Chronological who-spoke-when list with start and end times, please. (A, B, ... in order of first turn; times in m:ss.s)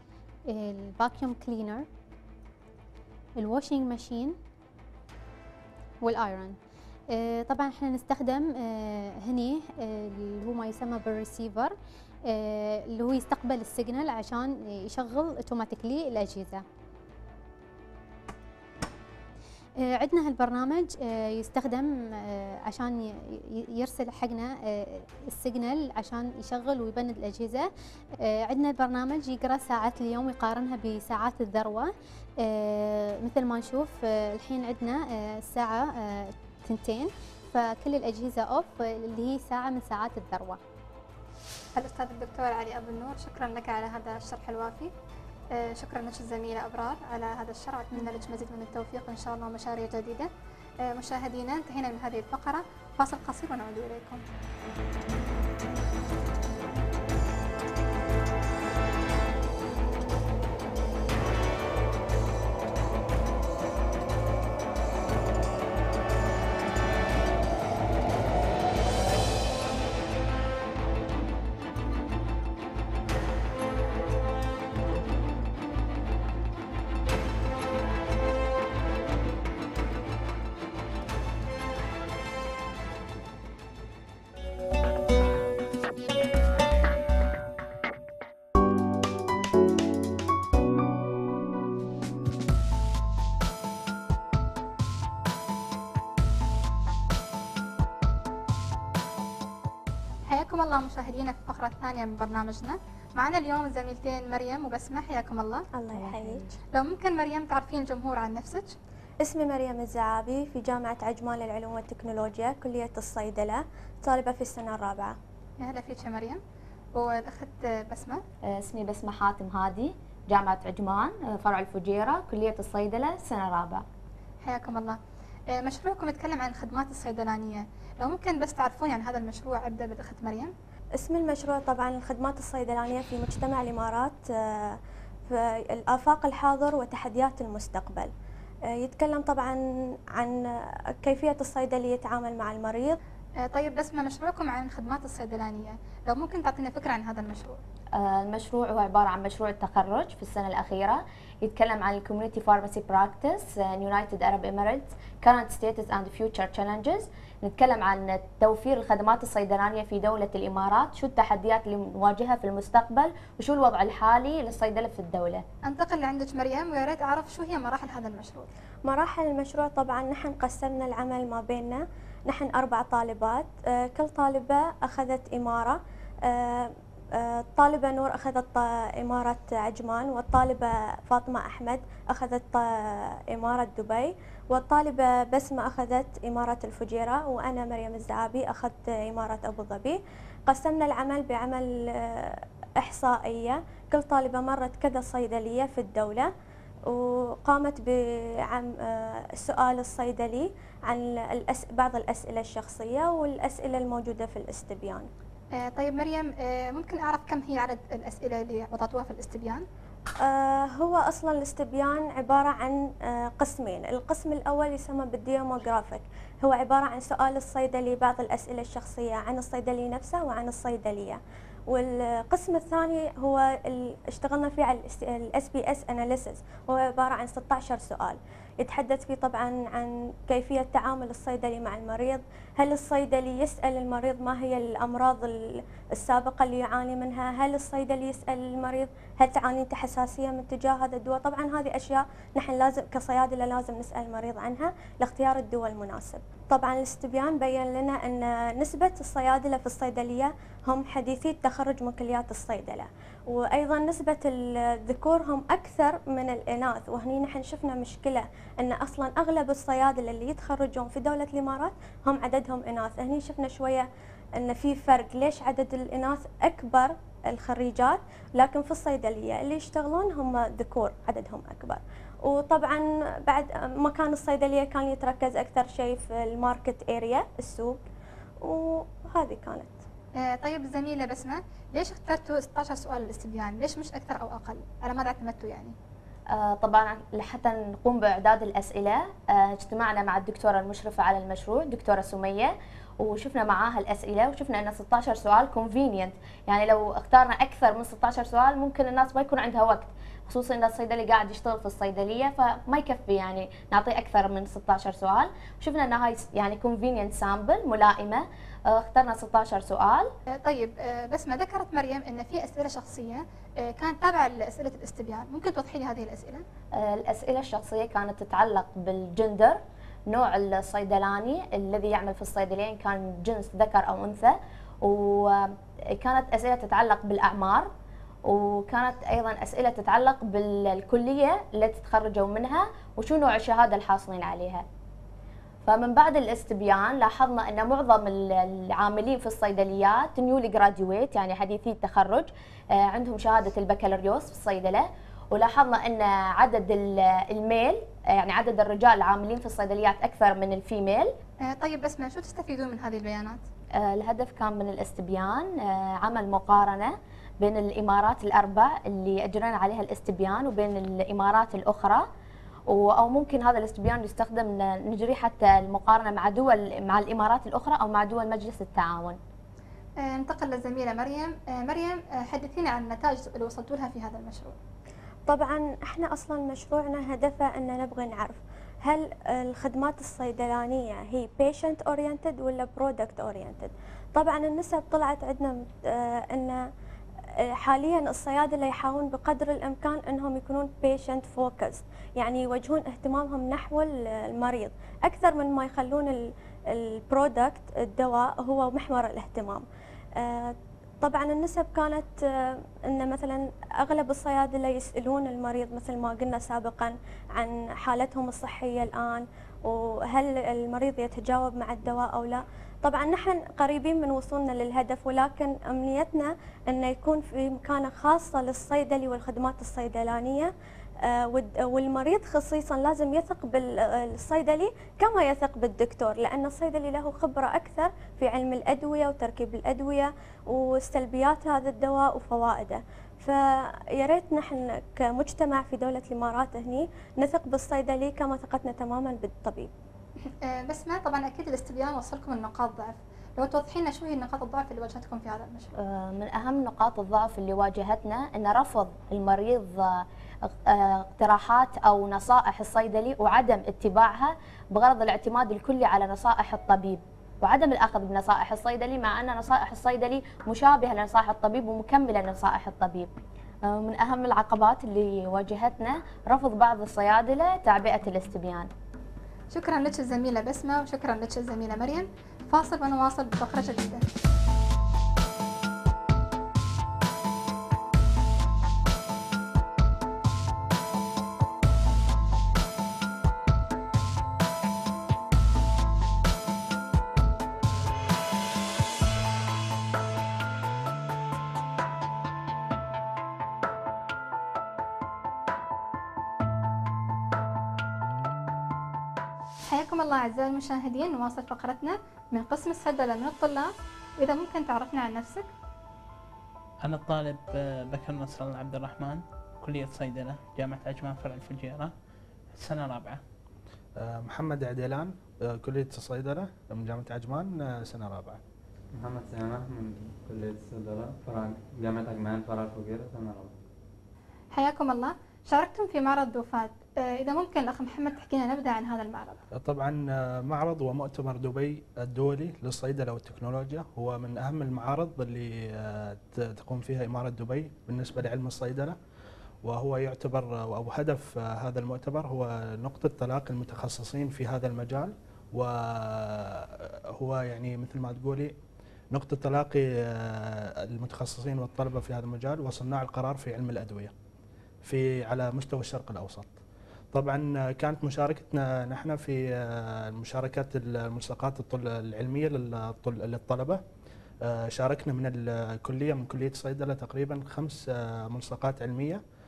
0:00.5-0:01.9 A
0:03.4-0:04.4 A
0:06.0-0:06.6 A
0:07.1-0:11.7 A
0:12.3-0:16.6 A
0:19.8-0:40.6 A
0:41.8-0:44.9 B
0:45.5-0:50.3 B
0:50.8-0:54.2 B
1:40.3-1:45.6 B
1:45.7-1:46.4 C
1:46.7-1:48.7 B
1:49.2-1:55.2 C
1:55.6-1:56.4 B
1:56.9-1:58.2 B
1:58.5-2:03.8 D
2:04.4-2:05.0 B
2:05.5-2:10.5 B
2:11.0-2:18.1 C
2:18.7-2:19.6 C
2:20.1-2:23.0 C
2:23.4-2:27.6 B
2:27.9-2:45.4 D
2:45.6-2:48.5 B
2:48.8-3:16.3 C
3:16.9-3:25.1 C
3:25.5-3:29.6 B
3:30.2-4:37.8 C
4:38.4-4:39.8 C
4:40.2-4:45.7 B
4:46.3-5:10.1 D
5:10.4-5:16.4 B
5:16.8-5:27.7 D
5:28.2-5:34.6 D
5:35.6-5:51.1 D
5:51.4-5:53.4 B
5:53.7-6:02.1 D
6:02.7-6:09.2 D
6:10.0-6:14.6 B
6:15.3-6:26.6 C
6:27.4-6:39.6 C
6:40.2-7:00.5 C
7:01.0-7:19.7 C
7:20.4-7:25.7 B
7:25.8-7:43.1 D
7:43.6-7:48.7 D
7:49.5-7:54.0 B
8:19.7-8:25.5 B
8:26.8-8:31.9 E
8:32.5-8:33.2 E
8:34.0-8:38.4 F
8:39.0-8:43.6 G
8:44.5-8:49.4 B
8:49.5-8:59.0 F
8:59.6-9:08.5 F
9:09.1-9:14.1 F
9:14.8-9:16.6 F
9:17.1-9:23.8 F
9:24.4-9:29.2 F